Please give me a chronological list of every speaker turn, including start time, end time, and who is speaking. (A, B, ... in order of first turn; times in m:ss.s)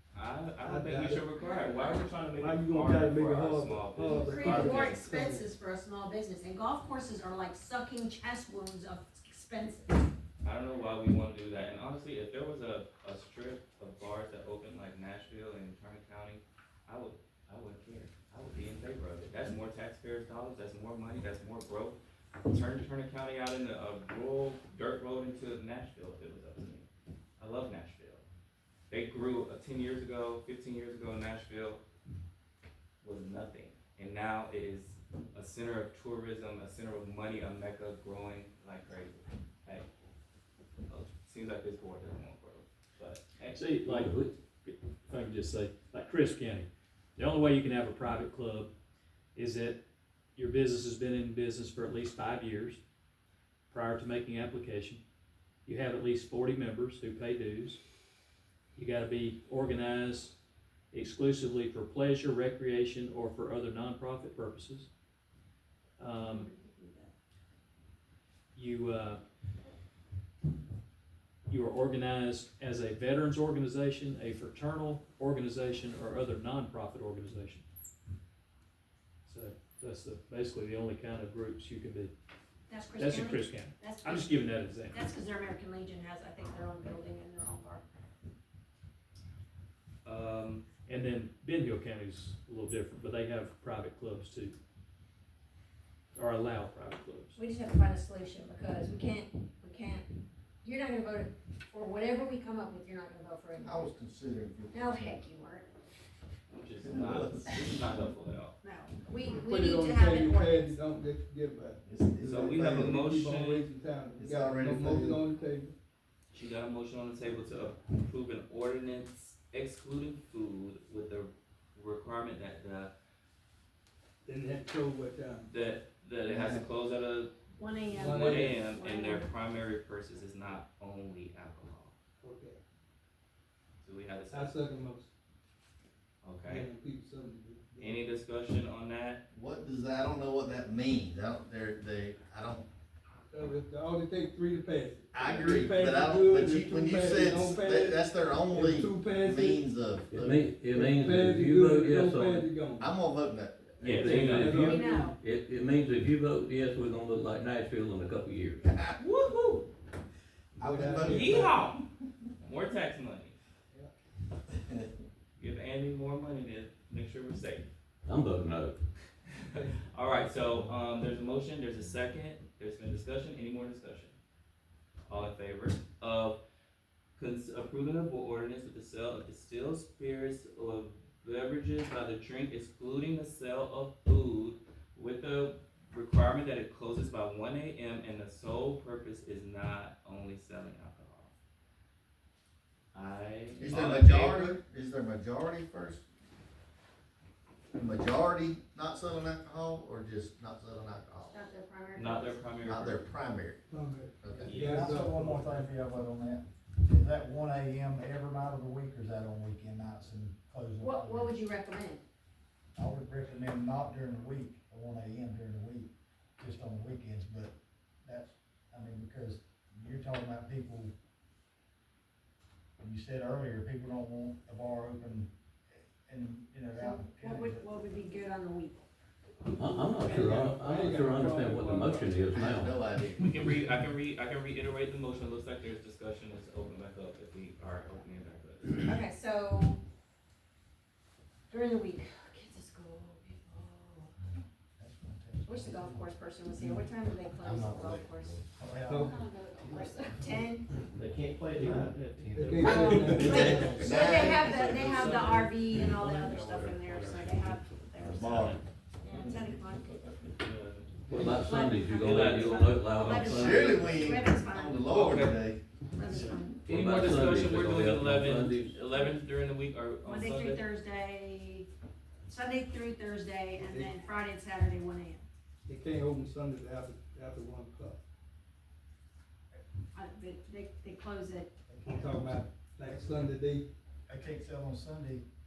0:00.1-0:05.0 A
0:00.6-0:01.2 B
0:01.6-0:01.9 C
0:02.4-0:05.4 B
0:04.1-0:10.1 C
0:10.4-0:26.8 A
0:27.4-0:28.2 A
0:28.9-0:31.8 A
0:33.0-0:39.8 A
0:40.9-0:43.6 A
0:43.5-0:48.7 D
0:43.8-0:44.3 E
0:49.3-0:49.8 D
0:50.4-0:52.8 D
0:53.7-0:55.0 D
0:55.6-0:57.8 D
0:58.7-1:00.3 D
1:00.9-1:04.9 D
1:06.0-1:06.5 D
1:06.1-1:07.1 C
1:08.5-1:09.2 D
1:11.5-1:17.6 D
1:19.2-1:22.1 D
1:22.7-1:24.4 C
1:22.9-1:25.0 D
1:24.9-1:27.8 C
1:30.0-1:30.6 A
1:30.8-1:34.6 D
1:36.1-1:37.4 D
1:37.4-1:40.1 C
1:40.6-1:43.8 C
1:43.5-1:45.2 F
1:44.7-1:45.7 C
1:46.5-1:48.6 A
1:46.8-1:47.7 F
1:48.6-1:50.7 C
1:49.3-1:55.7 B
1:51.8-1:53.0 F
1:52.2-1:53.7 A
1:54.1-1:55.2 F
1:56.3-2:02.9 A
2:04.2-2:05.5 B
2:05.5-2:07.3 A
2:06.2-2:06.6 F
2:07.6-2:09.3 C
2:07.9-2:11.9 A
2:08.0-2:08.6 B
2:12.2-2:12.6 B
2:13.8-2:14.6 A
2:14.3-2:15.1 B
2:16.2-2:16.7 A
2:16.5-2:18.0 B
2:17.8-2:19.2 A
2:19.3-2:22.6 F
2:23.3-2:29.6 B
2:25.1-2:30.5 F
2:30.1-2:32.5 E
2:30.7-2:32.8 B
2:32.7-2:33.8 F
2:33.8-2:38.7 E
2:33.8-2:34.7 A
2:34.4-2:35.1 B
2:34.6-2:35.1 C
2:38.6-2:38.9 F
2:39.0-2:39.7 A
2:40.6-2:41.5 F
2:40.7-2:41.5 B
2:41.0-2:41.8 A
2:42.4-2:43.3 A
2:44.5-2:44.8 F
2:45.4-2:47.7 A
2:48.0-2:48.8 E
2:49.3-2:54.1 A
2:55.1-2:56.4 A
2:57.2-3:11.3 A
3:12.9-3:14.6 A
3:13.6-3:16.0 F
3:17.7-3:21.4 F
3:21.2-3:22.5 C
3:21.9-3:23.0 A
3:22.6-3:23.6 F
3:23.7-3:25.6 B
3:24.2-3:24.6 F
3:24.3-3:31.3 G
3:24.4-3:25.0 A
3:30.8-3:32.0 C
3:32.8-3:37.5 G
3:38.0-3:40.9 G
3:42.8-3:45.3 G
3:46.0-3:47.6 G
3:46.7-3:48.8 C
3:49.5-3:52.8 E
3:50.0-3:52.2 B
3:52.3-3:53.6 F
3:53.2-3:58.9 A
3:58.8-3:59.8 C
4:01.5-4:04.2 C
4:04.8-4:06.9 G
4:05.4-4:10.7 C
4:07.4-4:08.4 F
4:08.4-4:10.4 G
4:08.9-4:09.1 B
4:10.9-4:14.8 F
4:12.3-4:13.8 B
4:12.6-4:19.9 C
4:13.0-4:15.4 A
4:16.3-4:18.6 D
4:18.1-4:18.6 F
4:19.2-4:20.1 F
4:20.4-4:23.0 A
4:21.1-4:24.1 E
4:21.3-4:25.1 C
4:23.1-4:25.6 F
4:24.9-4:25.5 A
4:25.9-4:26.6 C
4:26.6-4:28.8 E
4:26.7-4:30.6 A
4:28.9-4:29.1 C
4:30.0-4:31.7 C
4:32.2-4:35.2 C
4:33.5-4:34.0 B
4:35.6-4:38.0 B
4:39.9-4:41.5 C
4:41.7-4:42.3 G
4:41.9-4:43.7 B
4:42.9-4:43.2 G
4:44.1-4:45.2 G